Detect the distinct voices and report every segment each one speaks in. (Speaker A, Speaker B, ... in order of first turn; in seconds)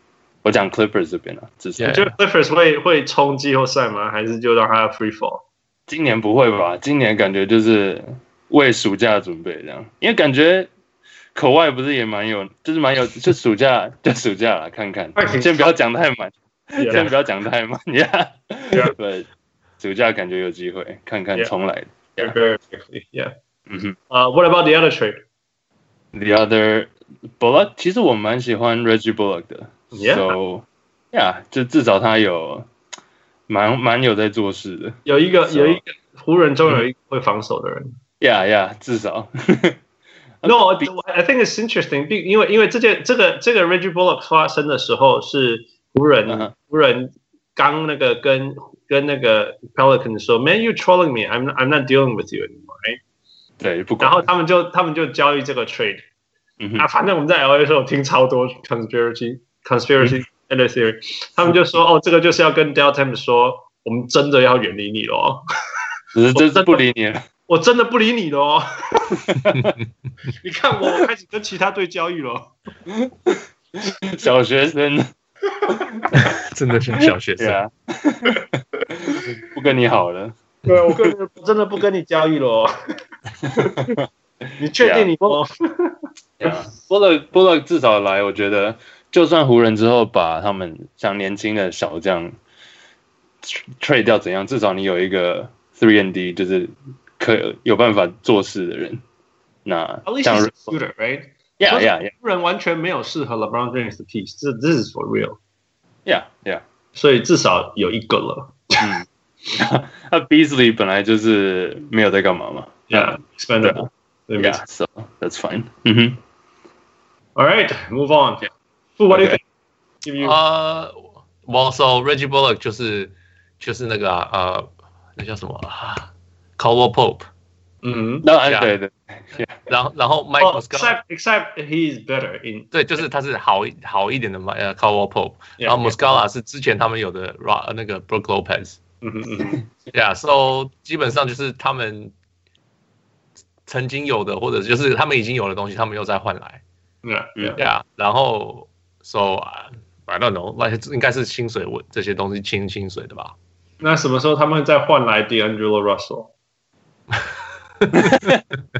Speaker A: 0.4-2.0, 5.9-10.7, 11.3-19.3, 19.8-22.3, 23.7-24.0, 26.1-32.7, 33.5-35.8, 38.2-39.8, 40.4-40.9, 53.6-54.2, 56.6-56.9, 66.1-67.2, 69.3-69.8, 72.9-75.1, 77.4-80.3, 83.5-85.4, 86.4-92.3, 93.4-99.0, 99.6-100.7, 101.6-102.1, 106.0-106.6, 108.8-116.2, 119.1-119.4, 128.2-129.6, 158.0-158.4
Speaker B: 1.8-2.1, 76.1-77.6, 120.2-127.2, 128.4-128.7, 129.7-130.9, 132.7-138.8, 139.9-142.1, 143.7-146.6, 147.6-153.3, 157.8-158.3
Speaker C: 1.9-5.4, 15.2-15.7, 16.8-17.1, 22.2-23.3, 24.1-25.2, 29.9-30.4, 35.0-37.9, 40.4-53.0, 54.0-56.0, 56.8-65.4, 66.3-66.8, 67.5-69.2, 70.4-72.5, 80.7-82.7, 83.5-84.0, 84.6-86.6, 100.0-105.4, 106.9-109.0, 112.9-114.6, 117.3-118.5, 119.0-119.4, 120.0-120.4, 127.8-128.2, 130.4-132.7, 135.6-136.2, 139.0-139.6, 147.0-147.6, 153.8-156.3